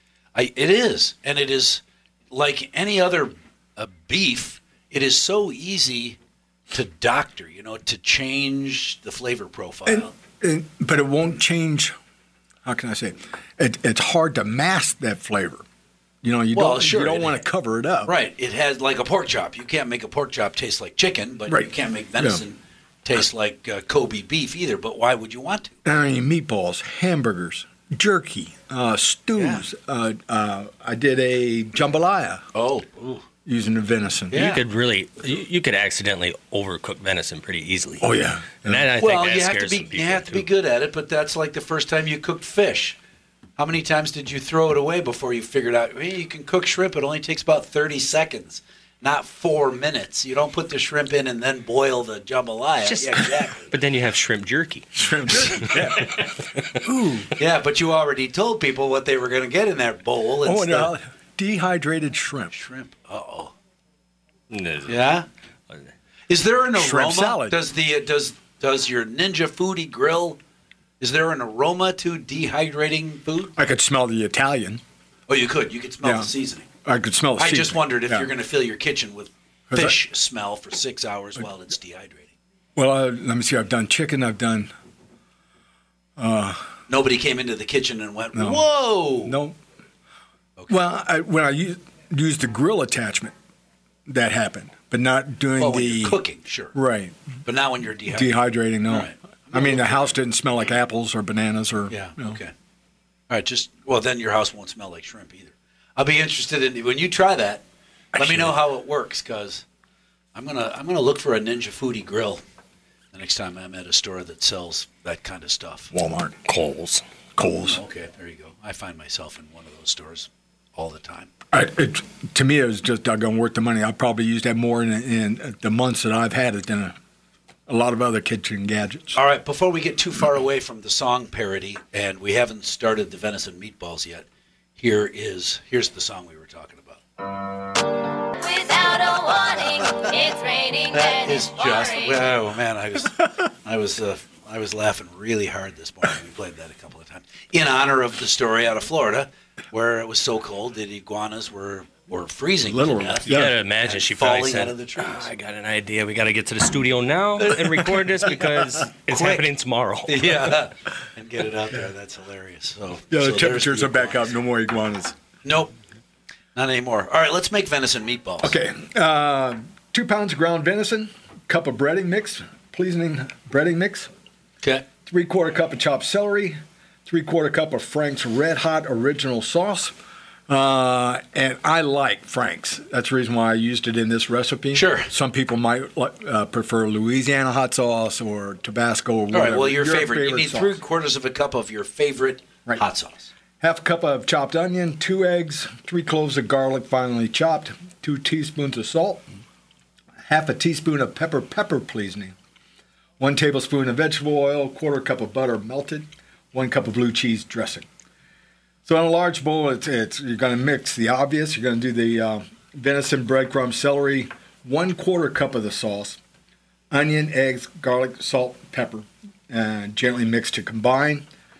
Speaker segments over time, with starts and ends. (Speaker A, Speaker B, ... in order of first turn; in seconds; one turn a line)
Speaker A: 0.3-6.2
Speaker A: 6.7-10.1
Speaker B: 9.9-11.9
Speaker B: 12.7-15.6
Speaker B: 16.2-18.2
Speaker A: 16.5-17.4
Speaker A: 18.1-25.7
Speaker B: 21.5-22.4
Speaker B: 25.9-32.5
Speaker A: 29.4-29.6
Speaker A: 32.5-33.2
Speaker B: 33.5-34.4
Speaker A: 34.3-34.6
Speaker C: 34.3-38.1
Speaker B: 38.0-38.9
Speaker C: 38.6-40.5
Speaker A: 39.0-43.0
Speaker A: 43.6-53.7
Speaker C: 52.9-56.8
Speaker B: 55.0-56.2
Speaker B: 56.8-57.3
Speaker A: 57.4-60.9
Speaker B: 60.4-62.5
Speaker A: 62.5-63.5
Speaker C: 64.5-65.0
Speaker A: 64.9-65.3
Speaker A: 66.3-70.4
Speaker B: 66.8-67.6
Speaker A: 71.0-73.5
Speaker B: 73.6-74.8
Speaker A: 75.3-76.7
Speaker B: 76.0-76.3
Speaker B: 76.8-78.3
Speaker A: 77.4-82.3
Speaker B: 79.7-80.0
Speaker B: 82.8-84.7
Speaker B: 86.2-86.7
Speaker A: 86.9-89.4
Speaker B: 88.3-88.7
Speaker B: 89.2-89.6
Speaker B: 90.7-93.3
Speaker B: 94.1-96.2
Speaker A: 95.6-96.8
Speaker B: 96.7-97.2
Speaker A: 97.5-98.3
Speaker B: 98.1-102.4
Speaker A: 98.9-100.2
Speaker A: 101.9-102.5
Speaker A: 103.3-107.6
Speaker B: 108.1-108.5
Speaker A: 108.2-109.6
Speaker A: 110.3-112.4
Speaker A: 113.1-115.9
Speaker B: 115.9-116.4
Speaker C: 116.5-117.0
Speaker B: 117.4-117.8
Speaker A: 117.6-121.3
Speaker B: 121.5-127.0
Speaker B: 127.7-129.2
Speaker A: 129.1-134.3
Speaker A: 134.8-137.0
Speaker D: 138.4-142.3
Speaker A: 140.9-155.3
Speaker B: 152.7-153.6
Speaker C: 153.3-160.5
Speaker A: 159.1-159.5
Speaker A: 160.1-164.3
Speaker B: 163.1-165.2
Speaker A: 165.4-165.7
Speaker A: 166.6-168.6
Speaker B: 168.4-174.1
Speaker A: 174.6-174.9
Speaker B: 175.1-179.9
Speaker B: 180.5-190.8
Speaker A: 184.7-185.1
Speaker A: 189.3-193.3
Speaker B: 193.6-199.3
Speaker B: 200.2-202.3
Speaker B: 203.2-207.9
Speaker B: 208.8-216.2
Speaker B: 216.9-221.2